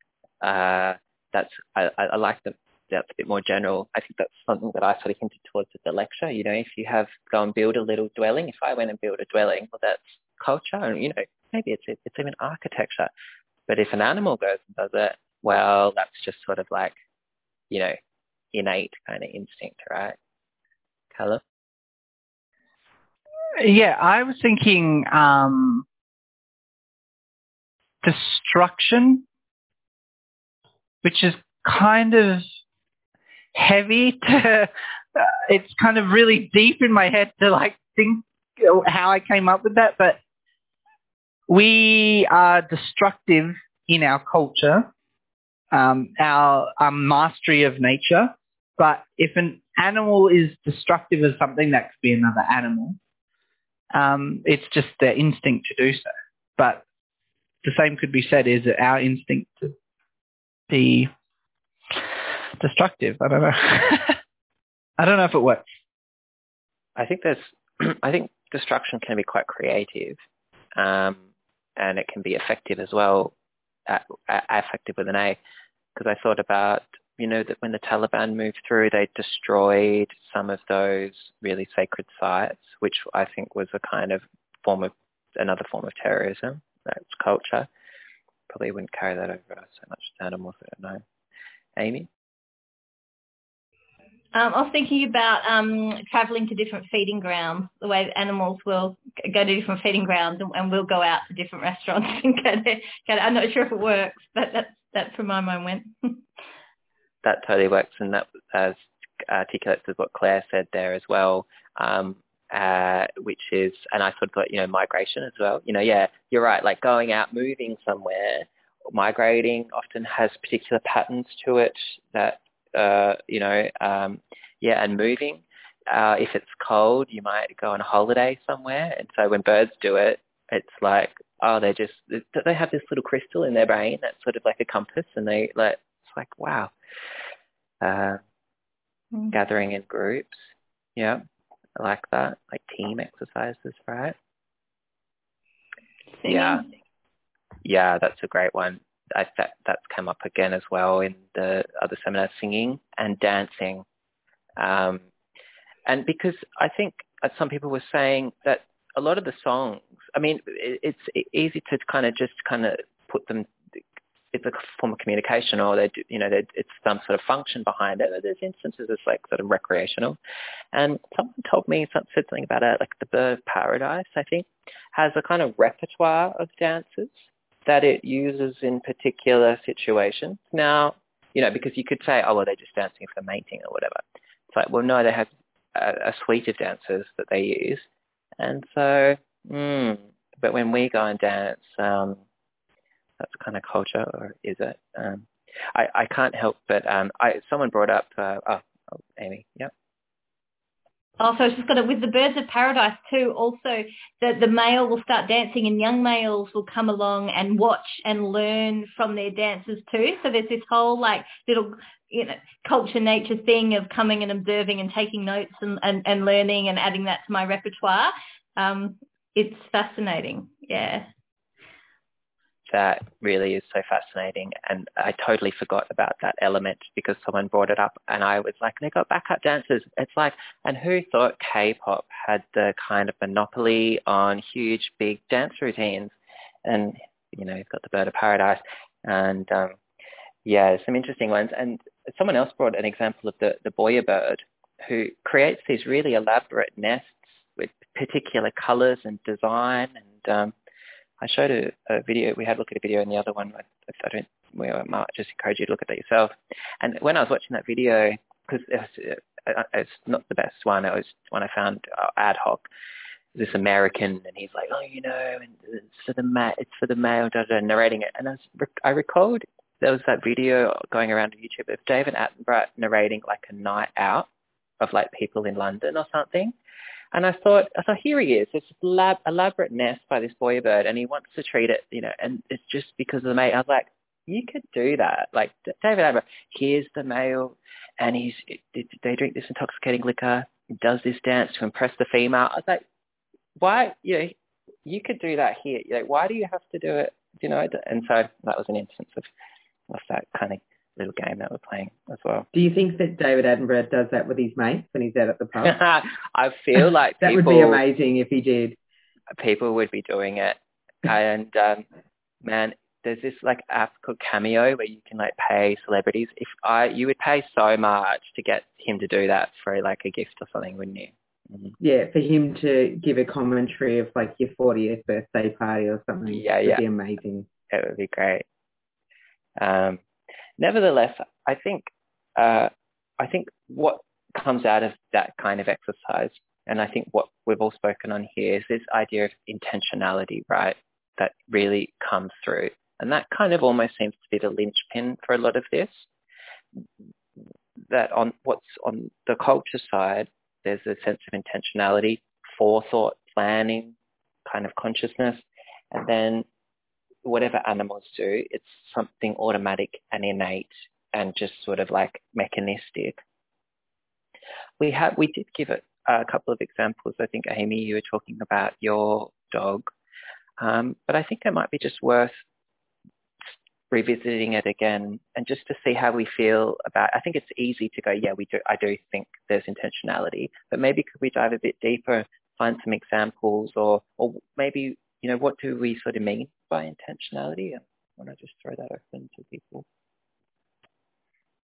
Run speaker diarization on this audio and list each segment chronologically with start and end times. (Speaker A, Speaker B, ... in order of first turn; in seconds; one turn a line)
Speaker A: 0.4-13.1
Speaker A: 13.7-16.9
Speaker A: 18.5-20.2
Speaker A: 21.1-21.4
Speaker B: 23.6-25.9
Speaker B: 28.0-29.2
Speaker B: 31.0-32.4
Speaker B: 33.5-40.2
Speaker B: 41.5-44.9
Speaker B: 45.7-53.0
Speaker B: 53.9-56.8
Speaker B: 57.6-59.8
Speaker B: 60.7-61.1
Speaker B: 62.6-64.2
Speaker B: 65.0-65.7
Speaker A: 67.0-70.2
Speaker A: 70.8-71.2
Speaker A: 71.8-73.3
Speaker A: 73.9-75.4
Speaker A: 76.0-87.7
Speaker A: 88.5-91.0
Speaker A: 91.8-92.1
Speaker C: 94.3-106.2
Speaker A: 107.2-136.7
Speaker A: 137.8-138.2
Speaker A: 139.3-141.2
Speaker A: 141.8-144.2
Speaker C: 146.2-146.6
Speaker A: 146.2-146.7
Speaker A: 147.6-153.8
Speaker A: 154.6-155.0
Speaker A: 155.9-163.8
Speaker A: 164.3-170.2
Speaker A: 170.7-187.9
Speaker A: 188.4-192.2
Speaker A: 193.2-198.7
Speaker A: 199.2-199.7
Speaker C: 201.2-221.1
Speaker A: 222.7-239.8
Speaker A: 240.4-250.5
Speaker A: 251.2-262.6
Speaker A: 263.4-274.3
Speaker A: 274.8-276.5
Speaker A: 277.1-292.8
Speaker A: 293.6-294.3
Speaker A: 294.9-299.3
Speaker A: 299.9-302.5
Speaker D: 302.5-305.8
Speaker A: 305.6-307.8
Speaker D: 307.2-308.8
Speaker A: 309.4-311.9
Speaker A: 312.4-321.8
Speaker D: 321.8-327.5
Speaker A: 326.3-326.8
Speaker A: 327.7-328.4
Speaker A: 329.6-330.0
Speaker A: 330.6-346.1
Speaker A: 347.9-353.9
Speaker A: 354.5-356.4
Speaker A: 357.2-363.2
Speaker A: 364.8-369.9
Speaker A: 370.6-372.4
Speaker A: 373.5-389.9